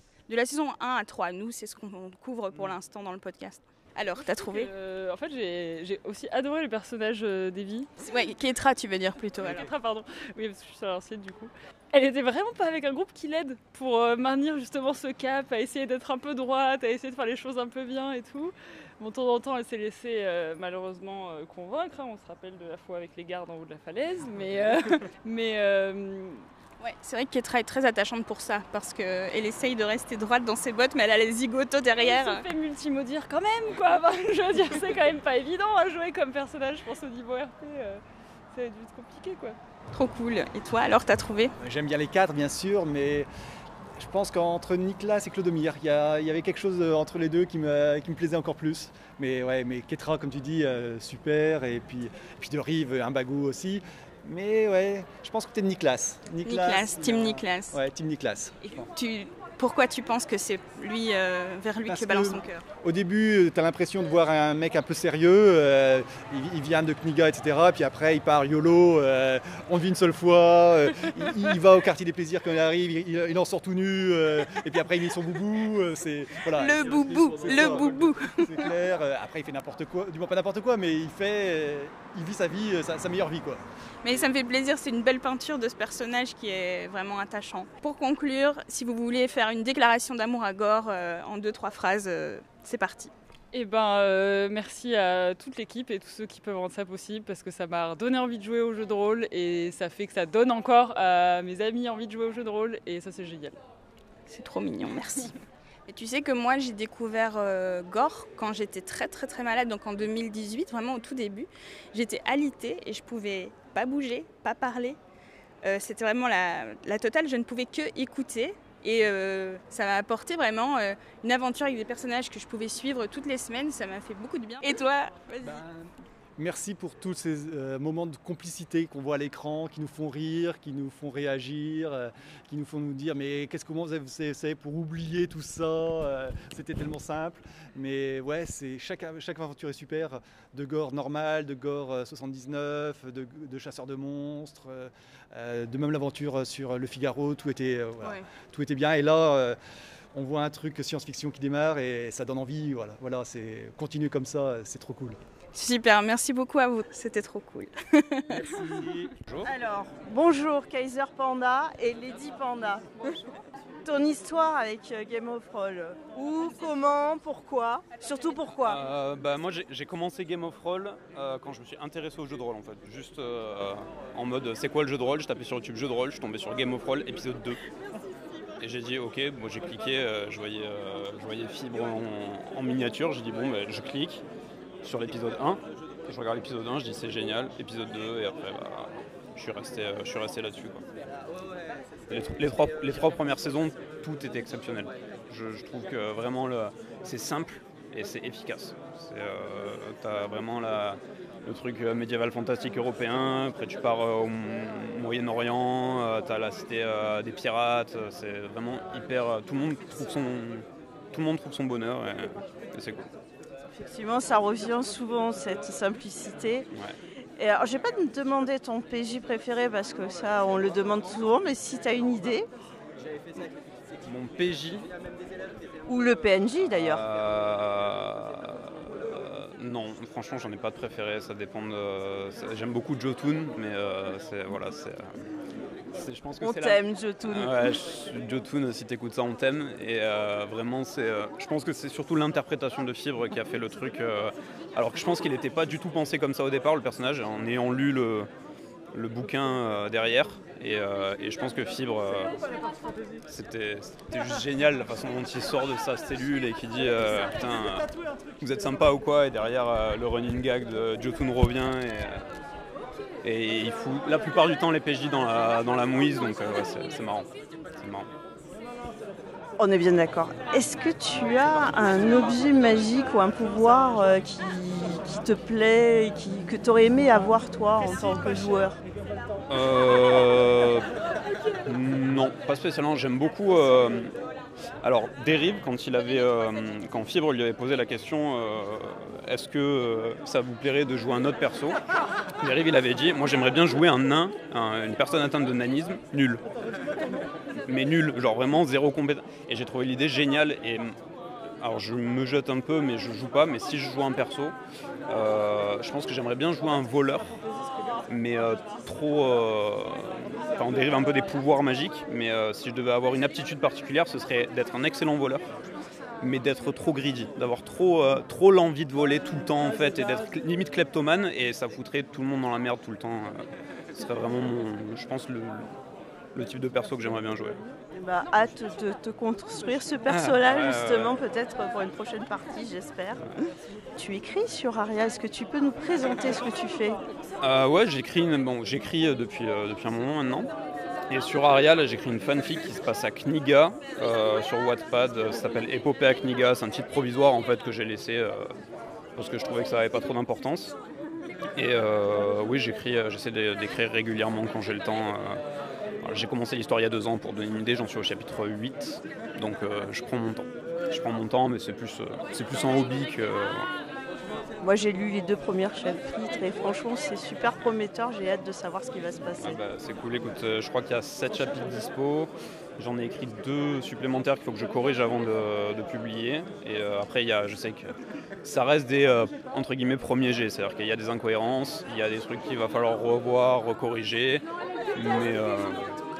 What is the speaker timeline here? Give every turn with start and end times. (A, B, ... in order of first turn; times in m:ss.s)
0:00.3-0:04.7 A
0:04.2-0:07.9 B
0:08.0-0:09.7 A
0:09.4-0:26.5 B
0:26.8-0:32.5 A
0:32.0-0:38.0 B
0:38.5-0:39.6 B
0:39.9-0:41.5 A
0:41.6-0:43.3 C
0:44.0-0:58.9 C
0:56.4-0:57.8 A
0:58.6-1:02.6 A
1:01.9-1:24.2 C
1:16.5-1:18.7 A
1:24.0-1:33.1 A
1:33.5-1:43.6 B
1:44.3-1:45.4 A
1:45.9-1:55.0 A
1:55.6-2:05.6 A
2:05.4-2:29.6 C
2:28.0-2:28.3 A
2:30.1-2:35.2 C
2:35.5-2:38.3 A
2:38.4-2:39.5 D
2:39.4-2:43.2 E
2:43.8-2:48.8 E
2:48.6-2:57.6 D
2:58.6-3:04.2 D
3:04.8-3:10.8 D
3:12.1-3:33.1 D
3:33.8-3:36.7 E
3:37.4-3:42.5 E
3:44.0-3:44.9 D
3:45.9-3:47.0 E
3:46.7-3:55.1 D
3:55.9-4:08.3 D
3:56.4-3:57.8 E
4:08.9-4:12.3 D
4:13.3-4:22.2 D
4:23.2-4:28.1 D
4:29.6-4:38.8 E
4:39.5-4:40.8 D
4:41.7-4:44.1 D
4:44.8-4:51.8 D
4:52.4-4:56.4 D
4:57.7-5:01.0 D
5:01.6-5:04.5 D
5:05.1-5:07.3 D
5:08.1-5:15.4 D
5:16.2-5:25.7 D
5:26.4-5:27.6 D
5:27.9-5:33.2 E
5:30.1-5:31.2 D
5:34.0-5:37.0 E
5:37.4-5:40.5 D
5:41.1-5:48.5 D
5:49.2-5:50.7 D
5:51.6-5:55.4 D
5:56.0-6:03.7 D
6:04.6-6:09.6 E
6:09.4-6:17.9 D
6:18.4-6:24.4 D
6:25.0-6:26.0 D